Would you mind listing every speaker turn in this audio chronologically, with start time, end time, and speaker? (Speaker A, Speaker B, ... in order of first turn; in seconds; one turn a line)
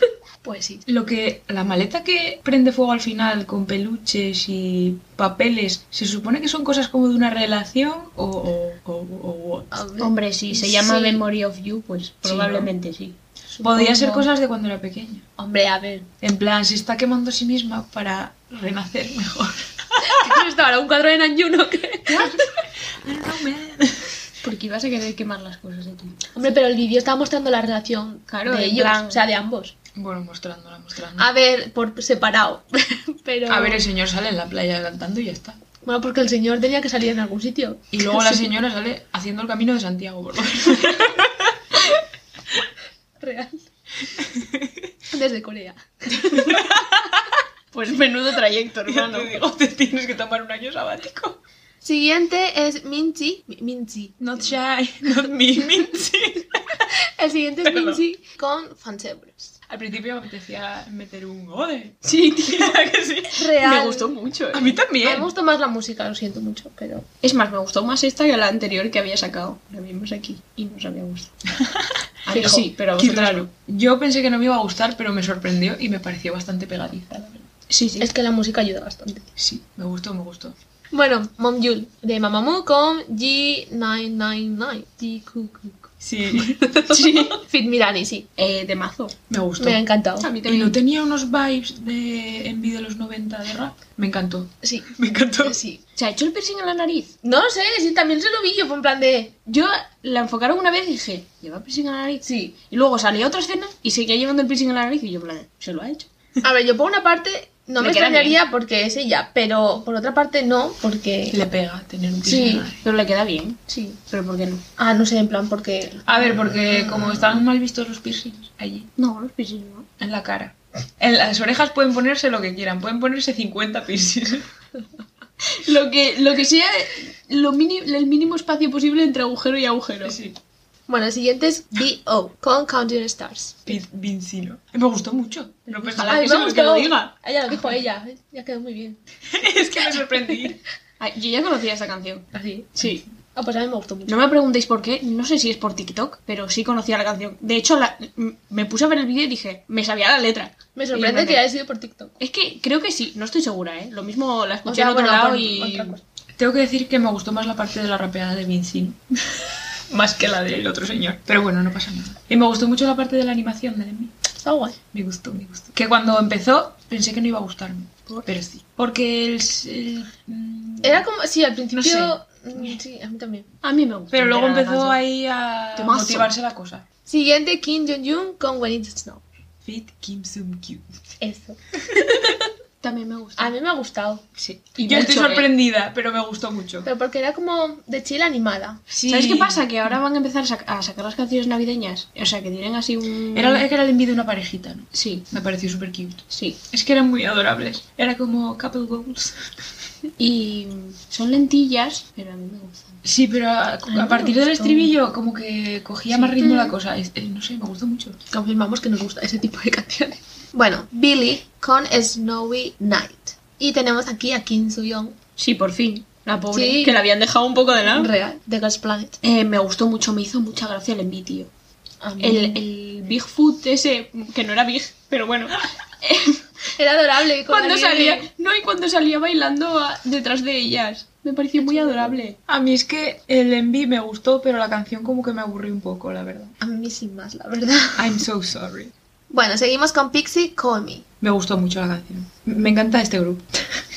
Speaker A: 0.4-0.8
Speaker B: 0.9-9.7
Speaker A: 9.7-11.2
Speaker C: 10.0-14.3
Speaker B: 12.2-12.7
Speaker B: 13.6-15.2
Speaker A: 15.4-16.1
Speaker B: 16.2-20.1
Speaker A: 20.1-22.3
Speaker B: 22.1-24.1
Speaker C: 24.4-26.3
Speaker A: 26.3-29.8
Speaker C: 28.3-29.2
Speaker B: 29.9-31.2
Speaker A: 31.2-33.8
Speaker B: 33.5-35.6
Speaker A: 35.8-38.4
Speaker B: 37.9-41.5
Speaker A: 43.2-43.6
Speaker B: 44.2-44.7
Speaker A: 45.1-46.7
Speaker B: 46.3-47.2
Speaker C: 47.7-49.4
Speaker B: 48.9-51.4
Speaker A: 51.8-54.2
Speaker B: 54.2-56.8
Speaker A: 57.2-59.5
Speaker B: 57.6-58.0
Speaker B: 59.7-63.3
Speaker C: 62.0-62.8
Speaker A: 63.3-64.1
Speaker C: 63.6-64.8
Speaker B: 64.5-65.3
Speaker A: 65.0-67.1
Speaker C: 67.2-71.3
Speaker B: 71.6-77.5
Speaker C: 72.2-73.5
Speaker A: 72.3-72.6
Speaker C: 77.7-78.1
Speaker A: 78.0-79.3
Speaker B: 79.4-80.5
Speaker A: 80.9-88.3
Speaker B: 86.0-86.6
Speaker C: 86.9-87.4
Speaker C: 88.4-89.2
Speaker B: 89.3-89.8
Speaker A: 89.6-90.3
Speaker C: 90.2-90.8
Speaker B: 90.4-95.6
Speaker A: 94.6-94.9
Speaker A: 95.4-95.8
Speaker C: 96.0-97.1
Speaker A: 97.2-99.3
Speaker C: 99.5-106.1
Speaker A: 102.2-102.6
Speaker A: 106.4-111.4
Speaker C: 107.8-108.4
Speaker B: 111.3-112.8
Speaker A: 112.2-112.7
Speaker C: 112.3-114.6
Speaker A: 114.8-116.1
Speaker B: 116.1-118.9
Speaker A: 116.7-117.4
Speaker C: 119.0-119.9
Speaker B: 120.0-124.5
Speaker C: 125.6-130.2
Speaker B: 130.0-130.4
Speaker A: 130.9-133.8
Speaker B: 133.7-136.9
Speaker C: 135.7-137.1
Speaker A: 136.0-139.0
Speaker B: 139.3-140.6
Speaker A: 140.0-140.4
Speaker C: 141.0-142.2
Speaker A: 142.3-142.7
Speaker C: 142.8-143.0
Speaker A: 143.3-144.2
Speaker C: 144.1-151.4
Speaker A: 150.8-152.2
Speaker C: 152.2-156.0
Speaker A: 154.7-156.0
Speaker B: 156.4-164.1
Speaker A: 164.4-164.8
Speaker B: 164.9-171.1
Speaker A: 170.8-173.5
Speaker B: 171.8-172.7
Speaker C: 173.6-175.0
Speaker B: 174.1-176.8
Speaker C: 175.8-176.3
Speaker A: 177.1-179.2
Speaker B: 179.6-180.9
Speaker A: 181.2-182.5
Speaker C: 182.8-183.5
Speaker A: 183.4-184.2
Speaker B: 184.4-186.9
Speaker C: 184.8-185.5
Speaker A: 186.8-188.8
Speaker B: 188.9-190.0
Speaker C: 189.1-193.7
Speaker B: 193.3-199.4
Speaker C: 194.9-195.3
Speaker C: 196.3-196.6
Speaker C: 200.2-203.0
Speaker B: 203.0-208.2
Speaker C: 203.9-204.8
Speaker A: 206.1-206.8
Speaker A: 208.3-215.2
Speaker C: 215.4-218.1
Speaker A: 216.5-217.0
Speaker A: 217.8-219.2
Speaker C: 219.2-221.5
Speaker A: 222.0-222.6
Speaker C: 222.2-226.4
Speaker A: 226.8-228.3
Speaker C: 227.5-232.4
Speaker A: 231.6-232.2
Speaker B: 232.5-236.5
Speaker A: 236.6-238.2
Speaker B: 238.0-238.9
Speaker A: 239.3-241.0
Speaker B: 241.2-243.5